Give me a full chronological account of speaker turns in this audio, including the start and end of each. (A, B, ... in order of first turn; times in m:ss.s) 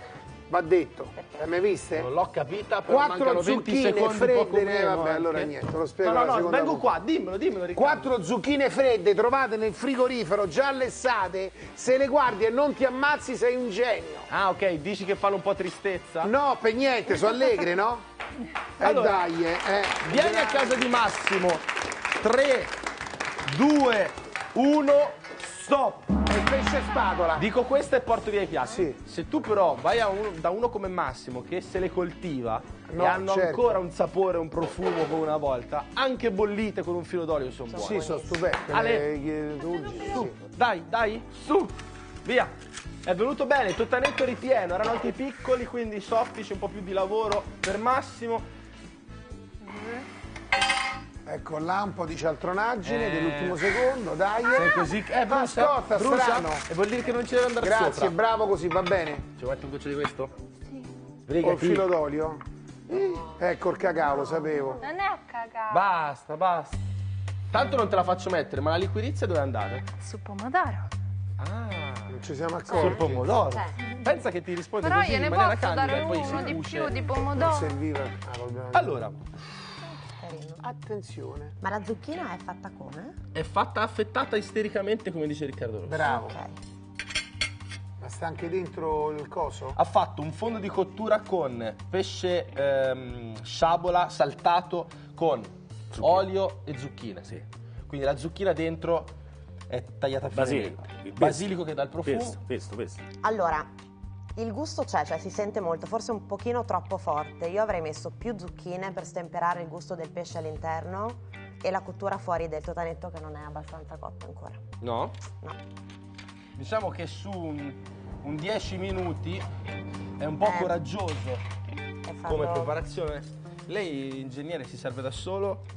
0:00.5-0:02.1 A
0:01.2-0:01.6 B
0:02.0-0:08.1 C
0:02.9-0:06.9 A
0:07.7-0:14.3 A
0:14.3-0:16.3 C
0:16.2-0:18.0 A
0:18.8-0:21.0 A
0:18.8-0:19.2 C
0:20.0-0:22.8 C
0:23.4-0:26.2 C
0:26.2-0:27.5 A
0:27.3-0:38.2 C
0:28.7-0:29.0 A
0:32.9-0:33.8 A
0:37.7-0:38.4 B
0:37.8-0:40.4 A
0:38.7-0:39.1 C
0:40.1-0:42.5 C
0:43.0-0:48.4 C
0:51.2-0:56.7 A
0:52.8-0:53.7 C
0:54.5-0:58.1 C
0:57.6-0:59.3 A
0:59.4-1:00.3 C
1:01.2-1:01.9 C
1:01.4-1:04.8 A
1:04.2-1:04.6 B
1:04.8-1:05.9 D
1:05.7-1:06.8 C
1:07.5-1:09.9 C
1:10.0-1:10.9 D
1:11.4-1:16.9 C
1:12.1-1:13.3 A
1:12.7-1:13.7 B
1:14.8-1:17.8 D
1:17.2-1:19.2 A
1:18.7-1:19.2 C
1:20.0-1:20.6 B
1:20.6-1:21.6 A
1:21.6-1:23.2 B
1:23.3-1:26.2 C
1:25.8-1:26.4 A
1:26.1-1:26.6 B
1:28.0-1:29.8 A
1:29.8-1:39.1 C
1:36.0-1:36.2 E
1:39.7-1:42.4 C
1:40.3-1:43.0 E
1:43.2-1:43.7 B
1:44.4-1:54.6 B
1:54.8-1:55.2 C
1:56.6-1:59.4 C
2:00.2-2:01.4 C
2:00.4-2:00.8 B
2:02.0-2:02.8 B
2:02.2-2:05.7 C